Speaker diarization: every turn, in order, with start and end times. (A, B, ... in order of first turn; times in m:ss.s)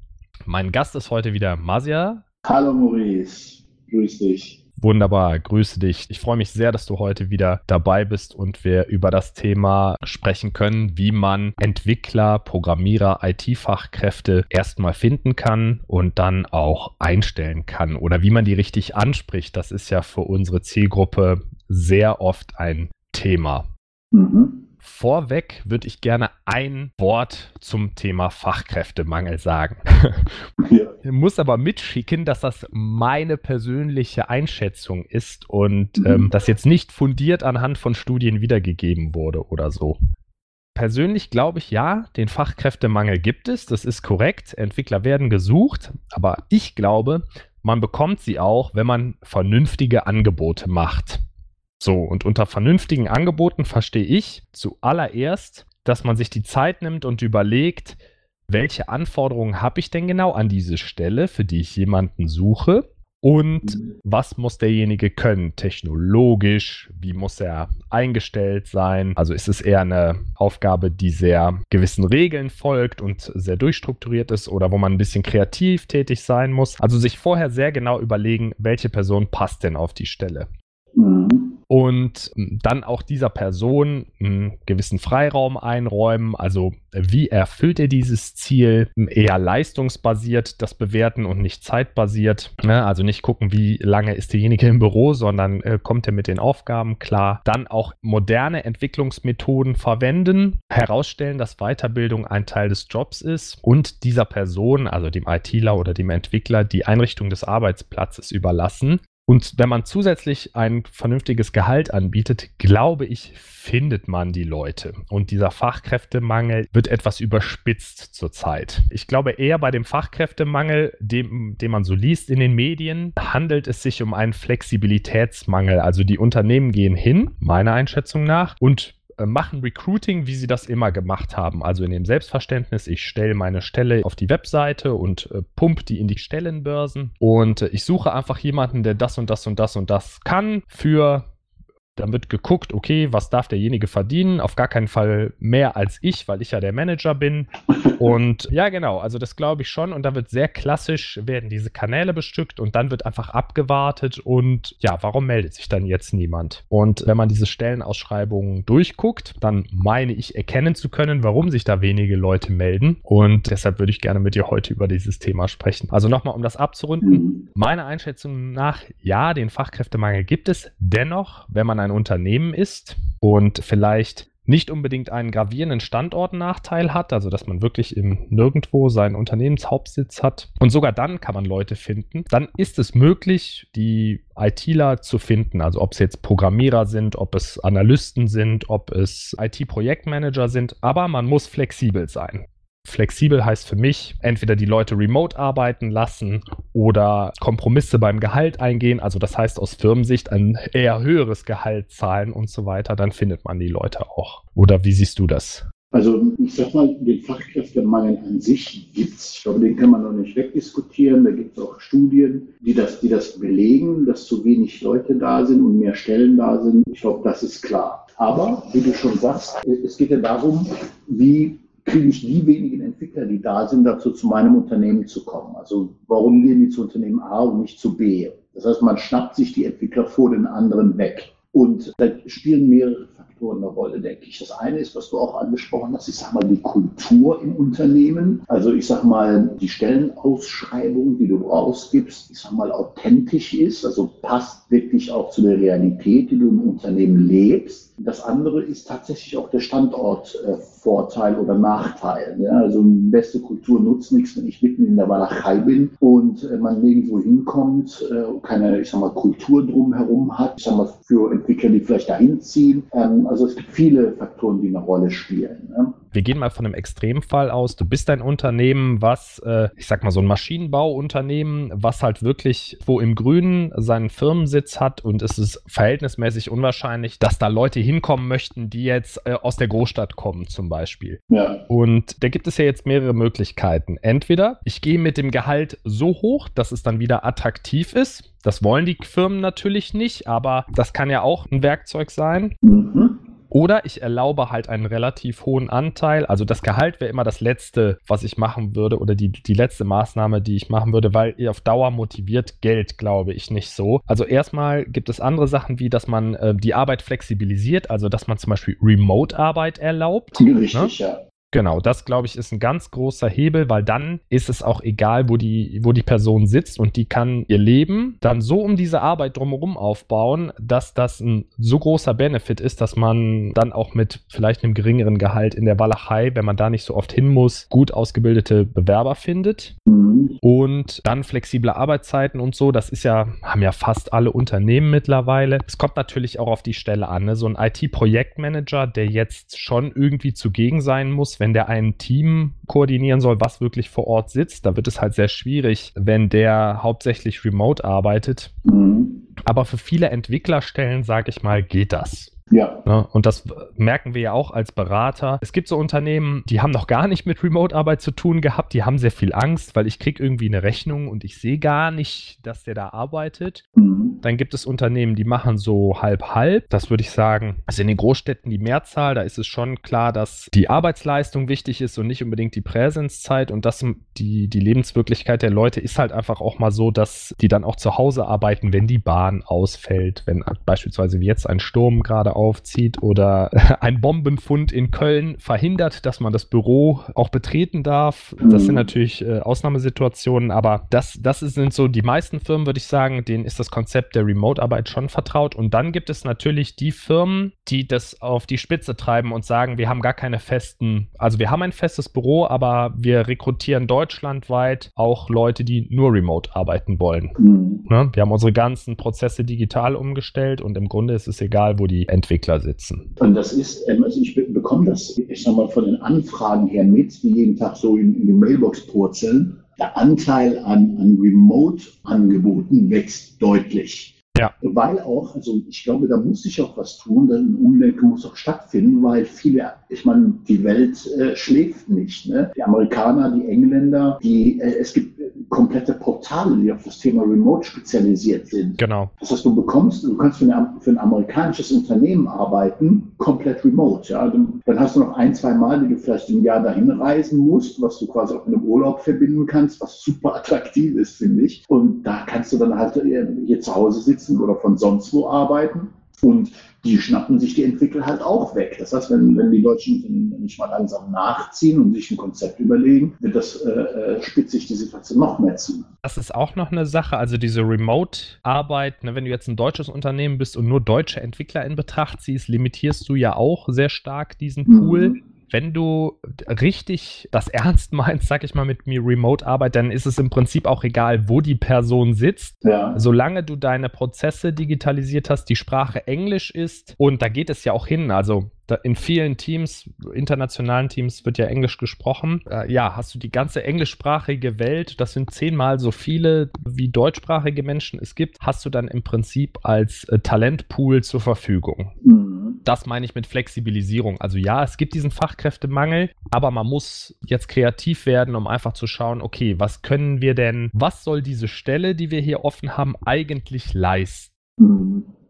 0:00.5-0:02.2 A
0:02.4-0:04.6 B
0:04.8-0:23.6 A
0:24.1-0:24.6 B
0:24.8-0:30.4 A
0:30.6-0:31.0 B
0:31.0-0:40.0 A
0:36.0-0:36.3 B
0:40.7-0:51.2 A
0:51.8-0:58.0 A
0:58.5-1:20.5 A
1:21.0-1:21.6 B
1:21.7-2:21.2 A
2:22.0-3:25.6 A
2:27.7-2:28.1 B
2:47.0-2:47.4 B
3:25.9-4:25.9 B
4:26.1-4:52.5 A
4:41.3-4:41.6 B
4:52.6-4:53.2 B
4:53.5-5:10.9 A
5:10.4-5:11.2 B
5:11.5-5:29.7 A
5:29.8-5:30.4 B
5:30.4-5:48.5 A
5:48.6-5:49.2 B
5:49.4-5:52.3 A
5:52.5-5:52.8 B
5:52.8-6:03.6 A
6:03.8-6:04.2 B
6:04.2-6:47.3 A
6:28.4-6:28.9 B
6:47.4-6:47.8 B
6:47.9-6:53.1 A
6:53.2-7:45.9 B
7:18.8-7:19.1 A
7:46.0-8:21.9 A
7:54.6-7:55.2 B
8:02.6-8:03.0 B
8:22.0-8:22.6 B
8:22.6-8:34.3 A
8:34.6-8:35.1 B